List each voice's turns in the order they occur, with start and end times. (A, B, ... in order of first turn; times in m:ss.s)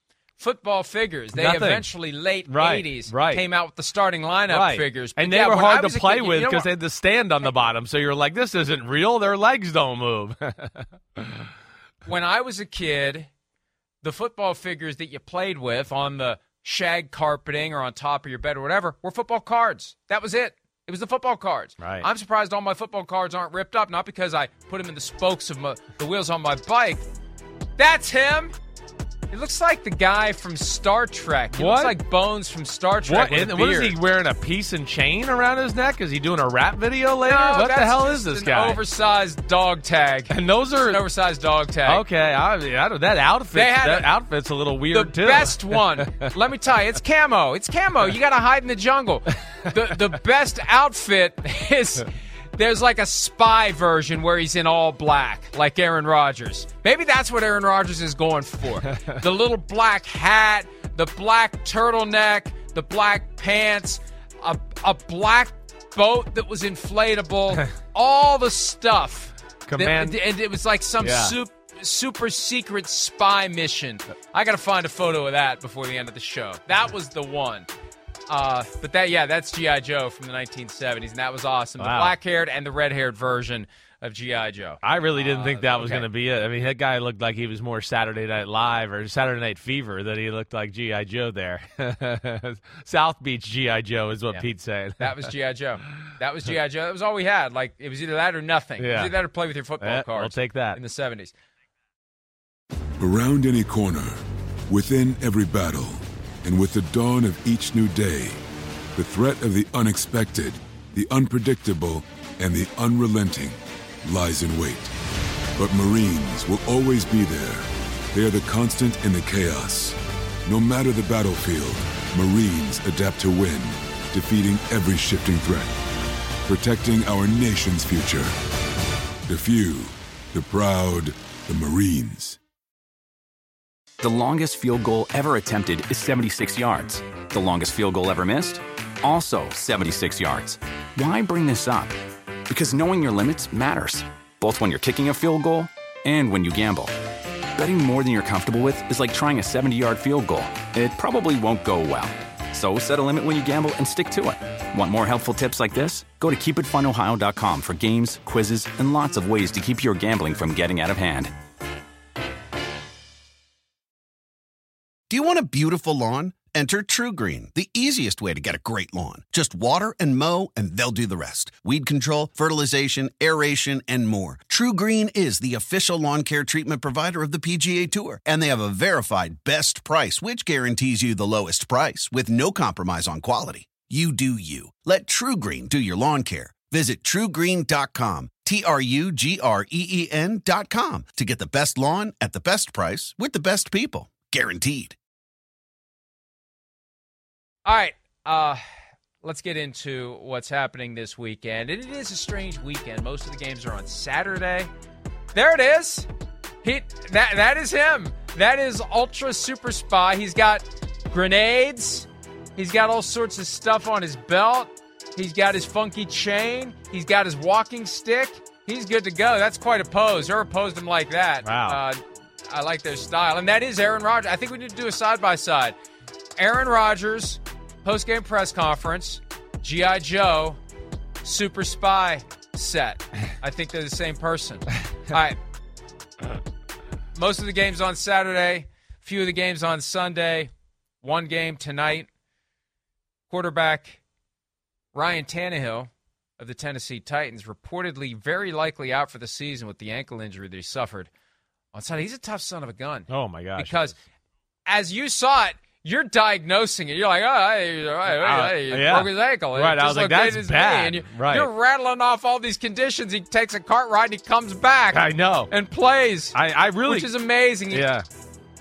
0:00.4-0:06.7 A
0:01.3-0:01.9 B
0:02.5-0:03.4 B
0:04.5-0:11.5 B
0:12.0-0:13.3 A
0:14.0-0:27.0 A
0:21.8-0:22.1 B
0:27.8-0:28.6 A
0:29.3-0:34.0 A
0:31.5-0:32.0 B
0:33.0-0:38.8 B
0:37.2-0:42.0 A
0:40.3-0:41.0 B
0:41.8-0:46.3 B
0:43.5-0:44.2 A
0:44.9-1:17.7 A
1:09.7-1:10.2 B
1:11.0-1:11.4 B
1:18.3-1:26.1 A
1:21.8-1:22.2 B
1:24.8-1:35.3 B
1:35.0-1:41.3 A
1:38.8-1:39.2 B
1:39.8-1:40.8 B
1:43.0-1:48.4 C
1:49.0-1:54.9 C
1:55.6-2:05.8 C
2:06.5-2:08.3 C
2:09.3-2:12.4 C
2:14.0-2:22.0 D
2:22.5-2:26.9 D
2:27.6-2:41.3 D
2:45.1-3:15.0 E
3:17.6-3:18.6 A
3:19.2-3:24.7 A
3:25.3-3:26.1 A
3:26.6-3:45.8 A
3:41.4-3:41.8 B
3:46.4-3:50.6 A
3:51.2-3:55.4 A
3:57.1-4:00.5 A
4:01.0-4:02.1 A
4:03.3-4:04.0 A
4:04.9-4:11.1 A
4:11.7-4:14.0 A
4:13.1-4:14.0 B
4:14.7-4:27.9 A
4:18.2-4:21.5 B
4:24.9-4:25.5 B
4:26.3-4:27.1 B
4:27.7-4:28.1 B